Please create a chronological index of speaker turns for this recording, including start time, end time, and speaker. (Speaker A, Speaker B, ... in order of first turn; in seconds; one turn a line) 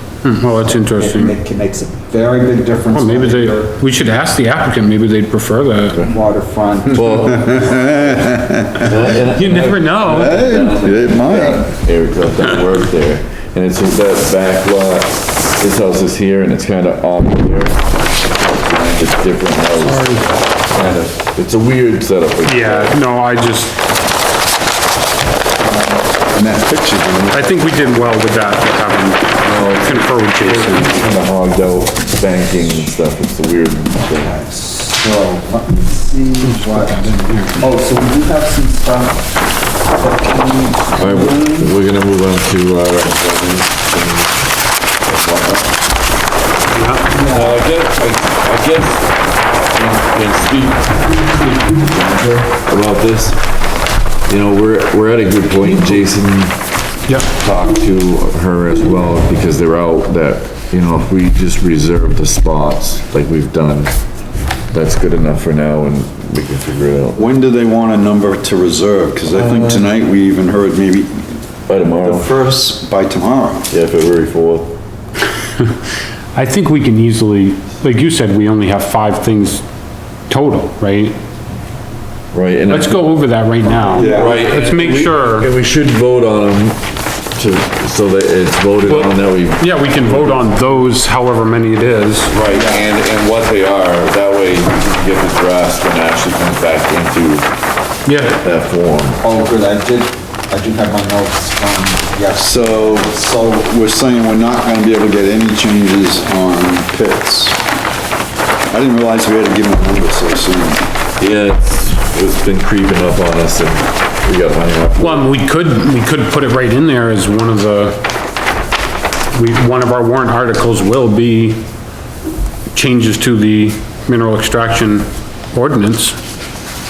Speaker A: 0.2-1.4
Speaker B: 0.7-3.8
Speaker A: 2.9-6.0
Speaker B: 5.9-7.6
Speaker C: 6.9-8.1
Speaker D: 7.2-8.9
Speaker C: 8.8-23.0
Speaker A: 9.3-10.6
Speaker D: 10.1-11.7
Speaker A: 19.8-20.2
Speaker A: 22.4-23.8
Speaker B: 25.6-26.7
Speaker D: 26.4-27.4
Speaker A: 27.3-30.8
Speaker C: 29.4-34.3
Speaker B: 34.1-39.3
Speaker A: 37.0-37.5
Speaker B: 39.9-41.7
Speaker C: 41.0-44.5
Speaker C: 45.0-45.8
Speaker A: 46.7-47.1
Speaker B: 47.1-47.6
Speaker C: 47.2-53.4
Speaker C: 54.3-56.6
Speaker C: 57.3-63.9
Speaker C: 64.7-67.2
Speaker D: 67.2-71.4
Speaker C: 69.3-69.8
Speaker C: 71.7-72.3
Speaker D: 72.0-73.7
Speaker C: 73.7-74.8
Speaker A: 76.3-79.6
Speaker A: 80.3-81.2
Speaker C: 82.3-83.0
Speaker A: 82.7-85.5
Speaker B: 83.7-84.5
Speaker C: 83.9-90.7
Speaker A: 88.9-92.3
Speaker C: 92.3-97.5
Speaker B: 92.5-92.8
Speaker A: 98.1-98.4
Speaker C: 98.2-99.2
Speaker B: 99.2-103.7
Speaker C: 102.4-103.1
Speaker D: 103.7-107.6
Speaker D: 108.7-110.8
Speaker C: 111.2-115.3
Speaker A: 115.0-118.0
Speaker A: 119.3-121.6
Speaker A: 122.7-126.2